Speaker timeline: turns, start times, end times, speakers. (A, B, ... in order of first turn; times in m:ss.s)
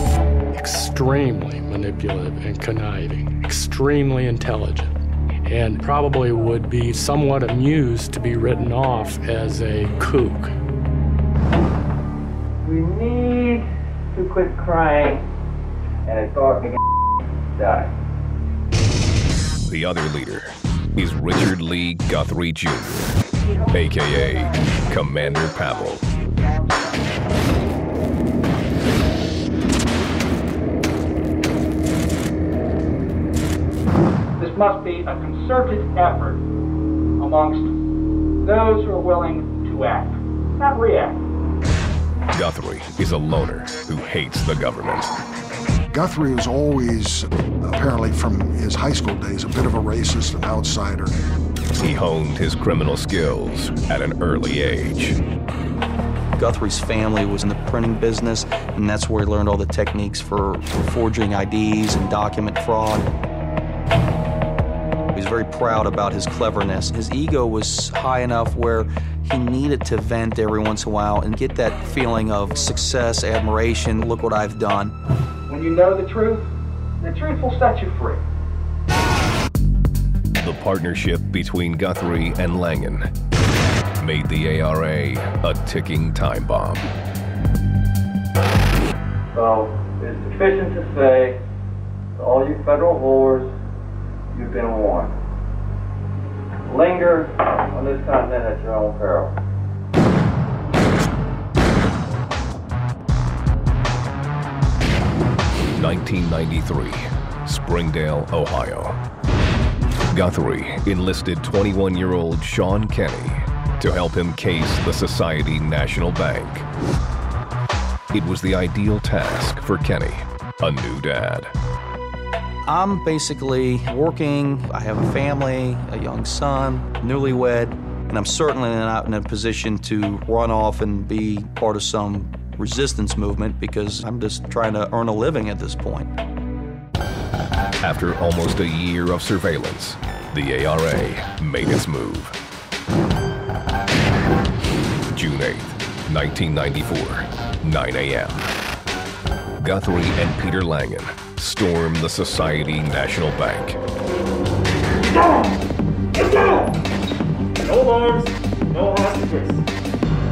0:00.5-0:04.9 A
0:05.4-0:10.5 A
0:12.6-0:15.2 B
0:16.0-0:16.8 B
0:17.6-0:17.9 B
0:19.6-0:23.2 C
0:23.7-0:26.0 C
0:34.4-0:36.4 D
0:37.2-0:37.7 D
0:38.4-0:41.2 D
0:42.3-0:45.1 C
0:45.9-0:51.1 E
0:51.8-0:55.2 C
0:56.4-1:03.1 F
1:05.1-1:14.9 F
1:15.5-1:16.5 D
1:17.0-1:18.2 D
1:20.4-1:23.1 C
1:24.0-1:26.9 C
1:29.3-1:31.4 B
1:32.2-1:33.5 B
1:34.3-1:35.2 B
1:36.7-1:39.3 B
1:45.7-1:49.0 C
1:50.1-1:56.6 C
1:58.1-2:01.5 C
2:02.7-2:16.1 F
2:17.8-2:22.4 C
2:25.1-2:28.5 C
2:29.6-2:33.8 C
2:36.2-2:36.6 G
2:37.6-2:39.6 G